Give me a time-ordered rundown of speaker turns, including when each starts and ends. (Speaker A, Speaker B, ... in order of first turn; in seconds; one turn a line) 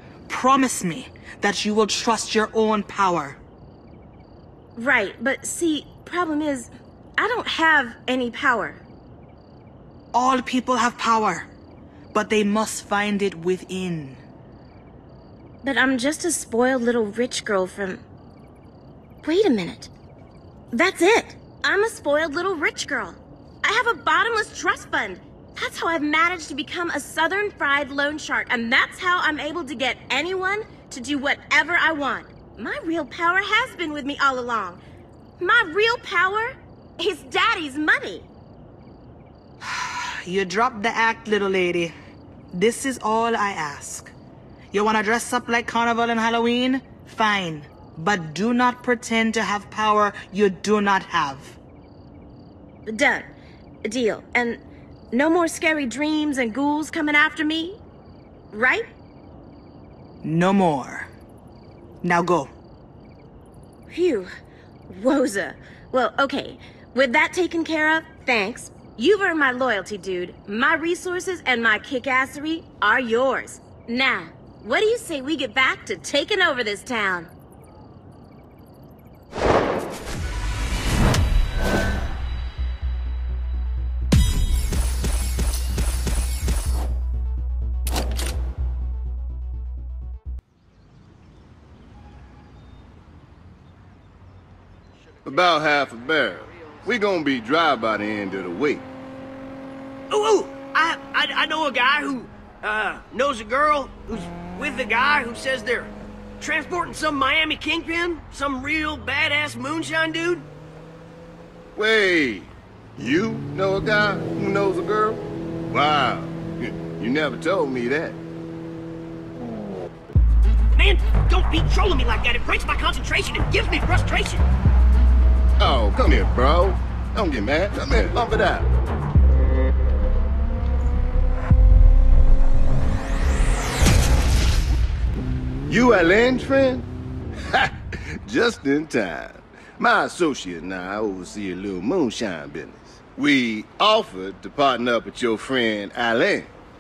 Speaker A: 0.3-3.4
Speaker B: 4.8-8.8
Speaker A: 10.1-11.5
Speaker A: 12.1-14.2
Speaker B: 15.6-18.0
Speaker B: 19.2-19.9
Speaker B: 20.7-34.8
Speaker B: 35.4-38.3
Speaker A: 39.6-41.9
Speaker A: 42.5-44.1
Speaker A: 44.7-51.6
Speaker B: 52.9-53.3
Speaker B: 53.9-54.6
Speaker B: 55.1-57.8
Speaker B: 58.5-58.9
Speaker A: 60.2-61.1
Speaker A: 62.0-62.5
Speaker B: 63.9-64.3
Speaker B: 64.9-77.3
Speaker C: 95.2-98.9
Speaker D: 100.1-110.5
Speaker C: 111.8-118.2
Speaker D: 120.8-124.4
Speaker C: 125.6-128.7
Speaker C: 135.7-136.9
Speaker C: 137.5-146.5